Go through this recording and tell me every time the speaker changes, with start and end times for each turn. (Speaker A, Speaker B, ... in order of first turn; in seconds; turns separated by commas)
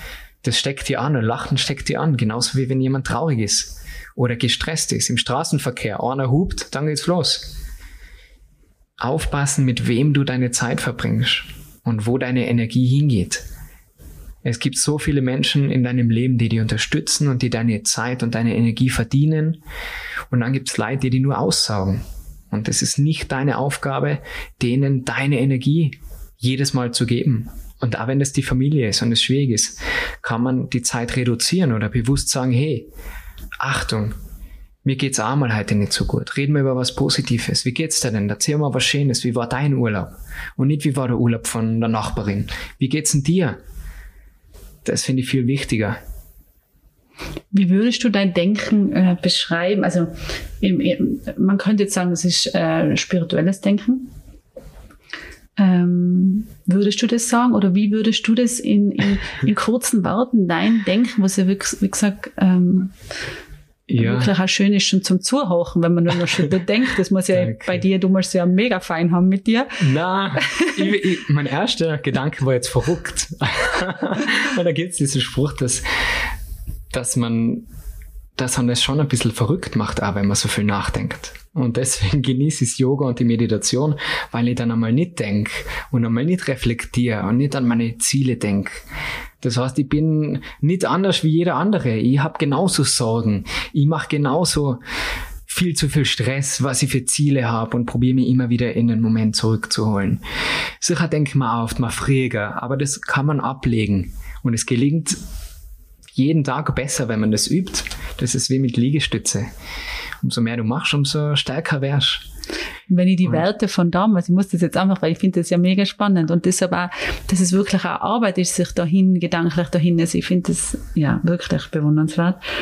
Speaker A: 0.4-7.5, Speaker A: 9.0-13.4, Speaker A: 14.4-19.6, Speaker A: 20.3-32.9, Speaker A: 33.6-34.2, Speaker A: 34.9-43.6, Speaker A: 44.8-46.0, Speaker B: 47.5-54.1, Speaker B: 55.6-62.9, Speaker A: 63.9-64.3, Speaker B: 64.0-69.8, Speaker A: 67.3-67.8, Speaker A: 69.8-75.8, Speaker B: 70.4-70.7, Speaker A: 76.9-77.7, Speaker A: 78.4-88.8, Speaker A: 89.4-94.8, Speaker A: 95.5-100.2, Speaker A: 100.8-105.2, Speaker A: 106.1-109.5, Speaker A: 110.2-112.3, Speaker B: 112.9-122.4